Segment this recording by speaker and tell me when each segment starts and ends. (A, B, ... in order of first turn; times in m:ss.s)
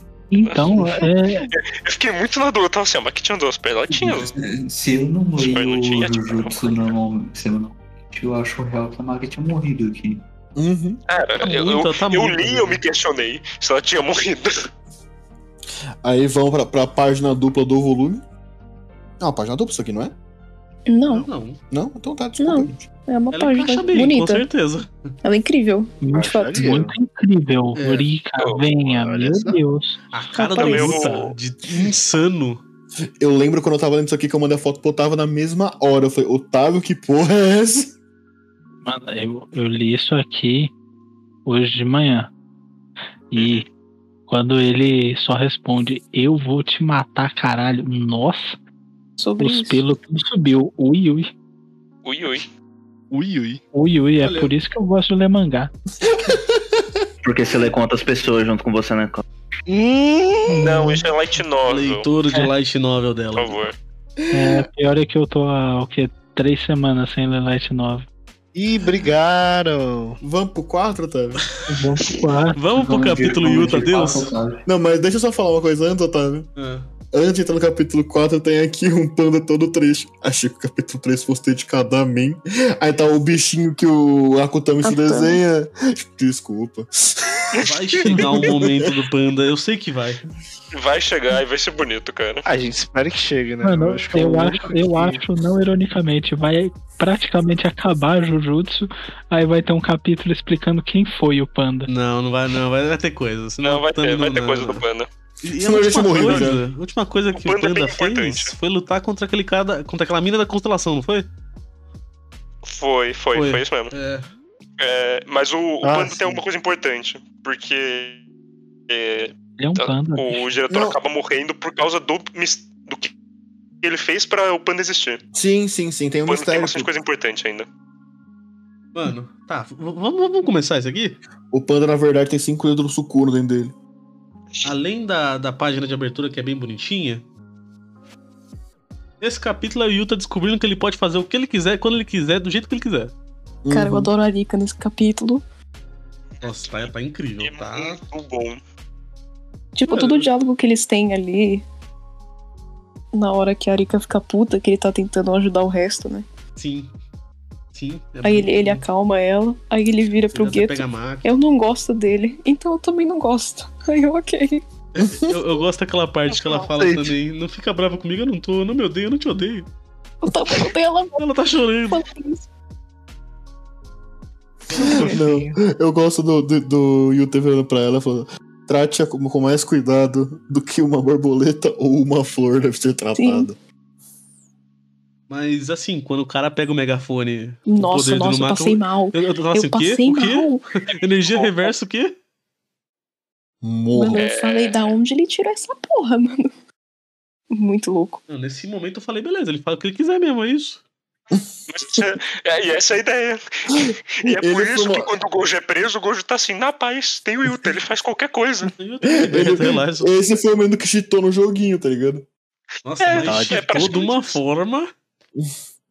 0:00.3-0:01.5 A
0:00.4-0:04.3 B
0:03.9-0:10.2 C
0:05.4-0:06.8 B
0:10.6-0:11.0 D
0:11.1-0:14.5 B
0:11.4-0:12.8 E
0:16.0-0:18.3 D
0:19.2-0:20.2 D
0:20.9-0:21.3 F
0:21.1-0:21.6 E
0:21.7-0:22.9 D
0:22.4-0:24.5 F
0:23.3-0:24.9 E
0:25.2-0:26.7 F
0:26.0-0:30.0 A
0:26.1-0:26.9 G
0:27.8-0:28.1 E
0:28.8-0:29.6 G
0:30.1-0:32.6 E
0:30.4-0:31.0 F
0:30.6-0:31.3 B
0:33.2-0:38.0 D
0:38.8-0:40.7 A
0:41.5-0:42.3 A
0:43.3-0:43.7 A
0:43.4-0:43.6 B
0:44.3-0:48.6 A
0:49.2-0:49.8 F
0:49.4-0:51.3 A
0:52.0-0:52.5 B
0:53.1-0:53.6 G
0:53.7-0:55.7 A
0:54.2-0:54.6 E
0:56.1-0:56.6 D
0:57.2-0:59.2 H
0:59.7-1:00.7 G
1:00.6-1:02.1 B
1:00.7-1:01.0 A
1:01.7-1:03.7 E
1:03.4-1:03.8 B
1:04.2-1:04.7 D
1:04.3-1:08.1 A
1:08.6-1:10.2 G
1:10.2-1:11.4 D
1:11.7-1:13.0 A
1:12.6-1:14.3 E
1:12.7-1:14.6 C
1:14.6-1:16.5 D
1:16.6-1:16.9 E
1:17.1-1:28.9 D
1:24.8-1:25.4 F
1:27.5-1:28.2 B
1:27.6-1:30.2 E
1:30.7-1:32.4 B
1:32.4-1:35.2 G
1:33.6-1:41.9 A
1:41.9-1:44.8 E
1:43.6-1:45.1 B
1:45.4-1:51.3 E
1:45.6-1:46.6 D
1:47.4-1:48.5 B
1:52.7-1:53.9 B
1:53.3-1:54.3 E
1:54.8-1:58.2 B
1:55.8-1:56.4 G
1:58.9-2:03.1 B
1:59.6-2:00.6 A
2:00.7-2:01.0 D
2:03.8-2:05.2 B
2:05.3-2:06.9 D
2:06.3-2:07.7 B
2:08.9-2:11.2 E
2:11.5-2:13.8 D
2:14.6-2:17.2 E
2:19.2-2:23.1 E
2:23.6-2:24.1 D
2:23.7-2:25.4 F
2:26.4-2:26.7 B
2:26.4-2:28.0 E
2:27.4-2:28.6 B
2:29.8-2:31.6 F
2:29.9-2:30.3 E
2:33.1-2:36.3 F
2:36.6-2:36.9 E
2:37.7-2:38.8 E
2:38.2-2:44.6 F
2:40.3-2:41.3 E
2:45.0-2:49.7 E
2:45.0-2:45.4 D
2:46.3-2:46.6 B
2:46.7-2:47.2 G
2:50.2-2:51.3 F
2:51.2-2:52.0 E
2:51.9-2:52.5 F
2:54.7-2:55.6 G
2:54.8-3:03.6 D
3:03.2-3:03.5 F
3:05.3-3:12.2 E
3:07.7-3:10.6 F
3:13.6-3:14.2 D
3:13.9-3:16.5 F
3:14.2-3:15.0 B
3:17.5-3:18.2 F
3:18.3-3:20.8 E
3:21.3-3:22.0 D
3:21.7-3:28.7 B
3:23.7-3:25.1 D
3:28.8-3:30.1 E
3:29.1-3:32.3 D
3:32.8-3:34.9 E
3:33.0-3:34.4 B
3:33.2-3:33.7 G